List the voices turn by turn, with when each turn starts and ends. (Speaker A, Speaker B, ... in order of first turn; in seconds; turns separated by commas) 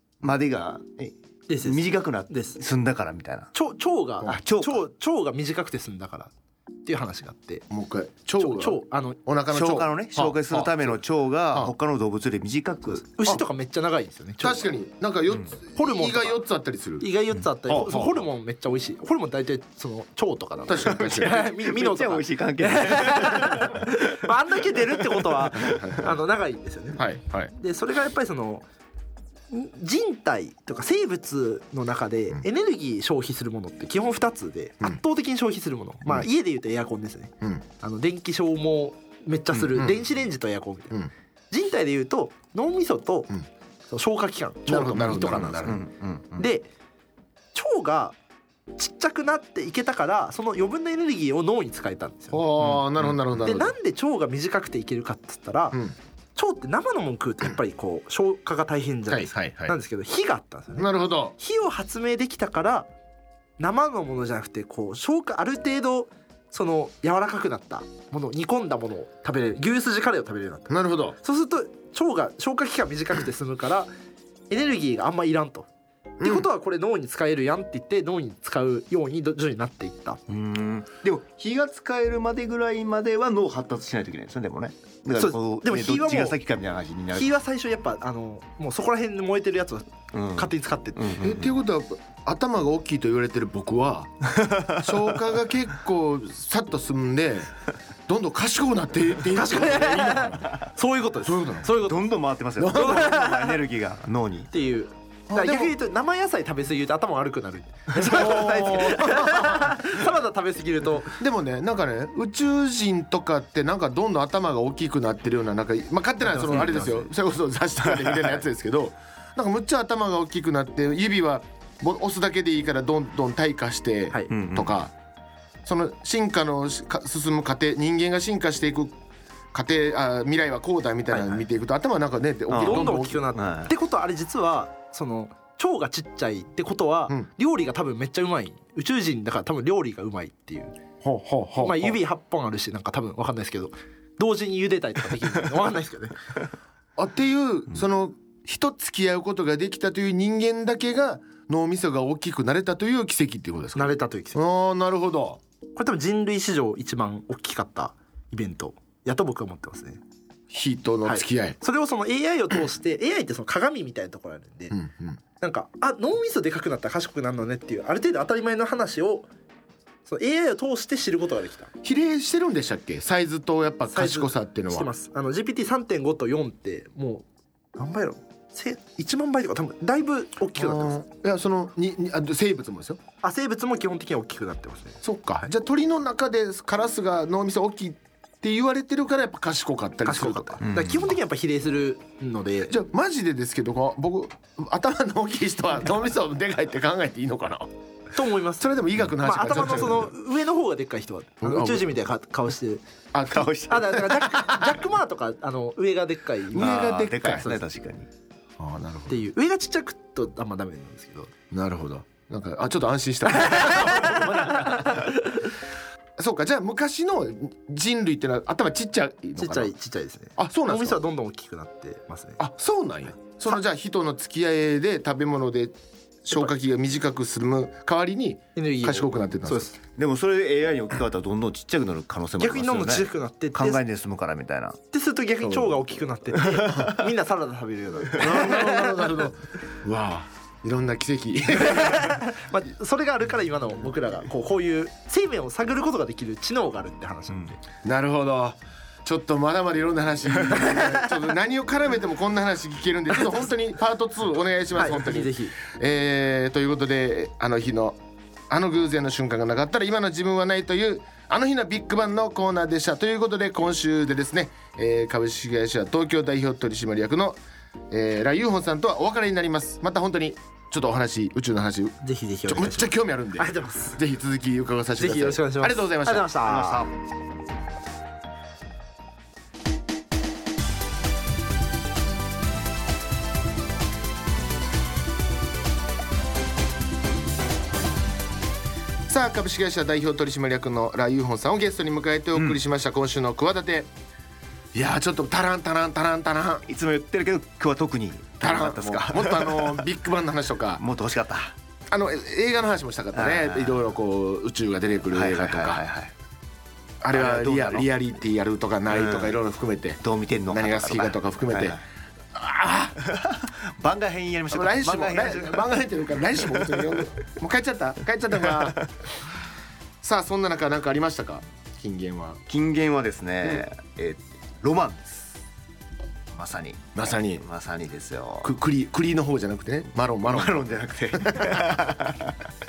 Speaker A: 0.2-3.5, Speaker B: 1.5-2.6, Speaker B: 3.5-6.3, Speaker A: 4.3-4.8, Speaker B: 6.8-7.7, Speaker C: 7.7-11.0, Speaker B: 8.4-9.2, Speaker A: 9.5-13.2, Speaker B: 13.1-14.7, Speaker C: 14.4-17.1, Speaker B: 15.8-16.4, Speaker B: 17.0-28.7, Speaker C: 17.7-18.2, Speaker C: 20.7-21.4, Speaker A: 20.9-25.9, Speaker C: 25.6-26.1, Speaker C: 27.0-27.5, Speaker B: 29.5-41.0, Speaker B: 41.5-43.3, Speaker B: 43.9-45.8, Speaker C: 44.7-45.8, Speaker A: 45.1-46.5, Speaker B: 46.4-46.7, Speaker B: 47.5-48.2, Speaker B: 48.8-52.4, Speaker C: 52.3-53.8, Speaker A: 52.6-53.2, Speaker B: 53.4-55.8, Speaker B: 56.4-62.9, Speaker C: 59.1-59.8, Speaker C: 60.8-61.4, Speaker B: 63.6-73.9, Speaker C: 70.7-71.2, Speaker B: 74.5-75.7, Speaker C: 76.2-76.5, Speaker B: 76.2-80.2, Speaker A: 80.3-87.4, Speaker B: 85.2-86.4, Speaker B: 87.1-91.2, Speaker A: 90.1-91.5, Speaker C: 91.2-97.5, Speaker A: 94.3-94.8, Speaker C: 98.1-100.5, Speaker B: 99.3-102.0, Speaker C: 101.2-101.7, Speaker A: 101.8-104.5, Speaker C: 102.6-103.1, Speaker B: 102.6-103.6, Speaker B: 104.5-111.2, Speaker C: 105.3-105.7, Speaker C: 108.0-109.8, Speaker C: 111.2-124.9, Speaker B: 116.2-117.1, Speaker A: 118.0-118.3, Speaker A: 124.3-124.8, Speaker C: 125.7-129.0, Speaker C: 129.5-133.2, Speaker B: 131.1-131.4, Speaker A: 132.5-133.7, Speaker B: 132.5-140.8, Speaker C: 141.0-142.0, Speaker B: 141.6-146.2, Speaker C: 147.0-155.4, Speaker B: 153.8-154.4, Speaker B: 155.8-160.0, Speaker C: 160.5-161.6, Speaker B: 161.1-164.8, Speaker C: 164.7-165.2, Speaker B: 165.4-169.3, Speaker B: 170.1-171.7, Speaker C: 171.8-174.9, Speaker B: 173.9-181.1, Speaker C: 180.6-183.0, Speaker B: 183.2-185.0, Speaker C: 185.0-190.6, Speaker B: 190.1-192.8, Speaker A: 190.6-191.1, Speaker C: 192.7-197.7, Speaker B: 198.2-202.8, Speaker C: 198.6-200.1, Speaker C: 201.4-201.9, Speaker C: 203.1-204.7, Speaker A: 203.3-204.1, Speaker B: 203.7-207.6, Speaker C: 206.5-207.5, Speaker A: 206.6-208.1, Speaker C: 208.6-209.2, Speaker B: 209.1-211.3, Speaker C: 211.5-215.0, Speaker B: 213.3-215.5, Speaker C: 216.2-219.7, Speaker B: 219.4-222.4, Speaker C: 220.4-221.0, Speaker C: 222.4-229.7, Speaker B: 228.6-229.8, Speaker A: 229.9-234.8, Speaker B: 232.4-233.8, Speaker B: 234.9-239.1, Speaker C: 235.4-235.8, Speaker A: 236.4-237.1, Speaker C: 238.2-242.2, Speaker B: 241.6-247.6, Speaker C: 247.8-258.0, Speaker B: 254.8-255.6, Speaker C: 258.5-267.4, Speaker C: 267.9-276.3, Speaker B: 272.0-274.0, Speaker B: 275.0-276.9, Speaker A: 276.4-276.9, Speaker C: 289.1-293.9, Speaker C: 294.7-296.7, Speaker A: 296.7-299.9, Speaker C: 298.4-300.8, Speaker A: 300.8-301.6, Speaker C: 301.9-305.8, Speaker A: 303.2-303.8, Speaker A: 305.1-306.1, Speaker C: 307.0-311.8, Speaker A: 307.1-307.9, Speaker A: 308.9-309.4, Speaker A: 310.0-311.8, Speaker C: 312.3-313.0, Speaker A: 313.0-315.8, Speaker C: 314.5-318.9, Speaker A: 316.4-316.9, Speaker A: 318.5-318.8, Speaker C: 320.0-322.4, Speaker A: 322.5-325.4, Speaker A: 326.3-328.5, Speaker C: 326.9-327.4, Speaker C: 328.4-331.9, Speaker A: 330.3-332.4